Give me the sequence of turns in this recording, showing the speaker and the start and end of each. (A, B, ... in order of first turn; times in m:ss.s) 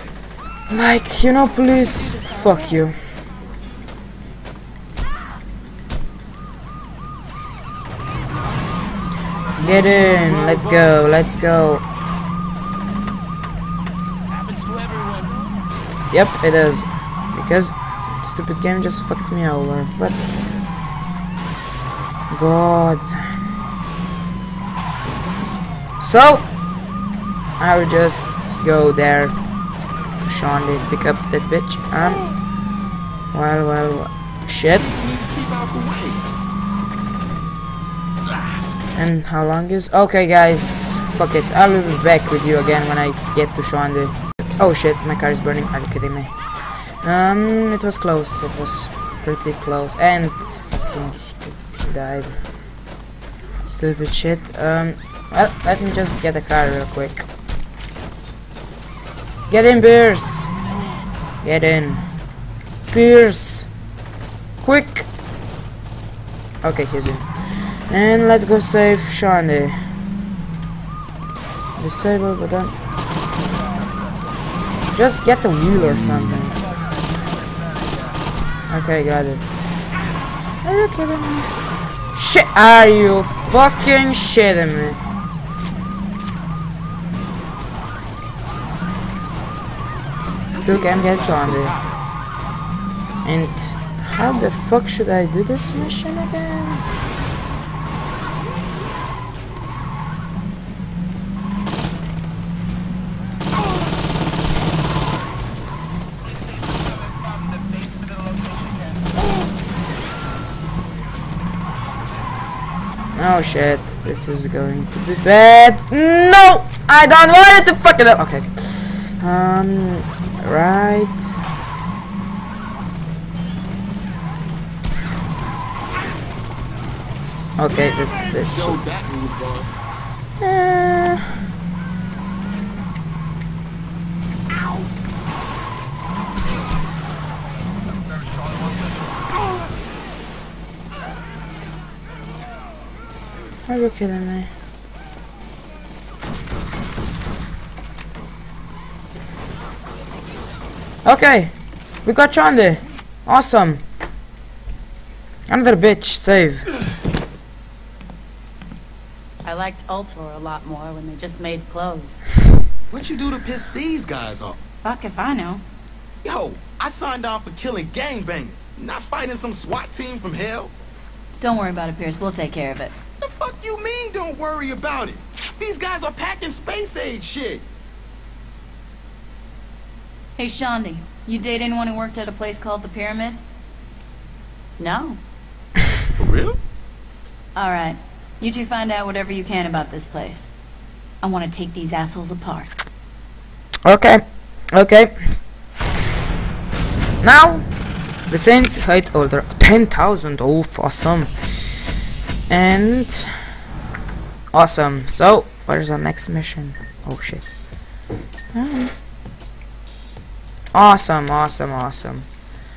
0:00.7-0:03.0 A
0:09.6-0:11.9 A
0:16.1-0:20.6 A
0:22.3-0:23.2 A
0:26.0-0:26.5 A
0:27.6-0:29.4 A
0:30.2-0:32.3 A
0:33.3-0:35.0 A
0:34.9-0:36.3 B
0:38.3-0:38.6 B
0:39.0-0:52.5 A
0:53.6-0:57.3 A
0:59.5-1:00.5 A
1:01.4-1:02.1 A
1:02.9-1:03.7 A
1:04.6-1:05.1 A
1:06.6-1:09.9 A
1:11.8-1:12.8 A
1:15.0-1:16.6 A
1:18.7-1:19.4 A
1:20.6-1:21.5 A
1:22.1-1:25.0 A
1:30.5-1:31.8 A
1:33.2-1:36.8 A
1:53.2-2:01.4 A
2:07.6-2:08.8 A
2:08.2-2:09.8 B
2:10.4-2:11.4 A
2:23.7-2:24.5 A
2:31.0-2:33.8 A
2:35.5-2:36.7 A
2:39.4-2:42.3 C
2:42.9-2:44.6 B
2:44.8-2:45.6 C
2:46.2-2:50.7 B
2:51.4-2:52.9 C
2:53.2-2:57.6 B
3:00.4-3:03.4 C
3:04.8-3:05.2 C
3:06.2-3:06.6 B
3:07.6-3:10.5 C
3:11.2-3:12.7 C
3:13.8-3:15.1 A
3:17.2-3:17.6 A
3:18.3-3:21.8 A
3:22.5-3:23.5 A
3:24.5-3:27.5 A
3:28.5-3:28.9 A
3:30.7-3:32.3 A